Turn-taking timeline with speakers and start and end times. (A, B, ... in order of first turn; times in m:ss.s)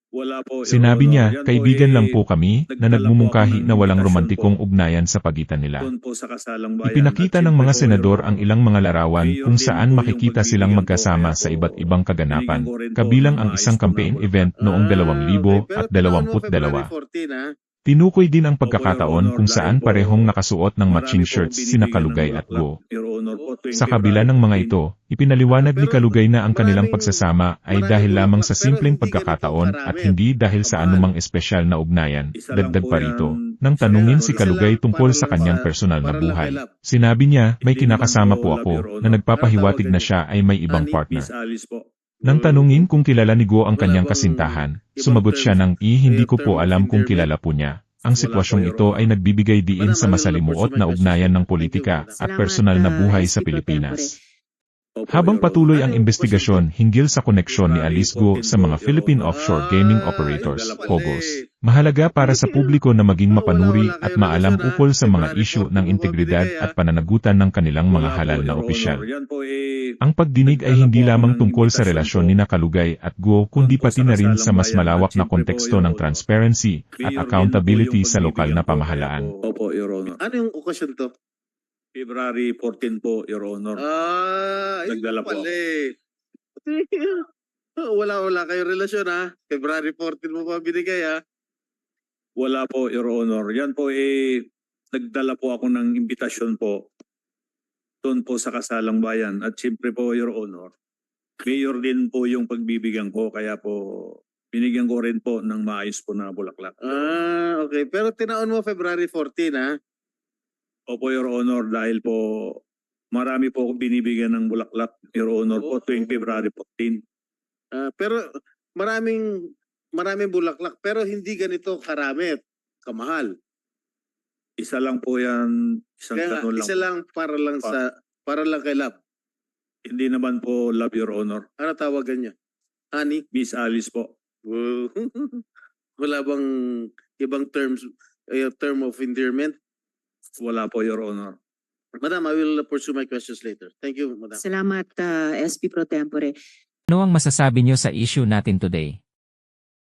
0:00.1-0:02.1 A
0:00.6-0:05.9 B
0:02.7-0:04.6 A
0:05.8-0:08.4 A
0:06.8-0:16.9 B
0:09.2-0:14.5 A
0:14.6-0:17.5 C
0:17.8-0:22.8 B
0:18.6-0:20.3 A
0:20.9-0:24.7 A
0:23.3-0:24.2 C
0:23.7-0:41.3 B
0:25.5-0:30.2 C
0:30.7-0:31.1 C
0:32.4-0:34.8 A
0:33.9-0:36.7 C
0:37.6-0:40.1 A
0:40.7-0:41.0 C
0:41.1-0:41.8 A
0:42.2-0:42.8 C
0:42.2-0:54.1 B
0:43.8-0:47.3 C
0:48.1-0:49.0 A
0:49.8-0:52.1 C
0:52.2-0:54.2 D
0:55.0-0:56.6 A
0:55.1-1:09.0 B
0:55.4-0:56.3 C
0:57.5-0:59.4 A
0:59.3-1:01.4 C
1:00.4-1:01.2 A
1:02.2-1:02.8 C
1:03.3-1:06.7 C
1:07.9-1:09.9 A
1:10.0-1:19.3 B
1:10.4-1:12.4 A
1:13.6-1:16.2 A
1:17.0-1:20.2 A
1:20.2-1:21.1 C
1:21.9-1:23.8 A
1:23.8-1:25.9 C
1:24.9-1:25.6 A
1:26.6-1:27.3 C
1:27.8-1:31.2 C
1:32.4-1:36.8 A
1:38.0-1:40.7 A
1:41.4-1:47.1 A
1:46.8-1:49.8 C
1:50.9-1:52.6 A
1:53.1-1:57.0 A
1:57.7-1:58.2 C
1:58.8-2:03.3 C
2:04.6-2:06.8 A
2:06.1-2:09.0 C
2:09.8-2:11.5 A
2:11.6-2:12.3 C
2:12.9-2:13.2 C
2:13.3-2:14.1 A
2:14.4-2:15.4 C
2:16.0-2:19.6 C
2:20.4-2:21.4 A
2:22.0-2:24.4 C
2:24.4-2:26.4 D
2:26.9-2:29.0 E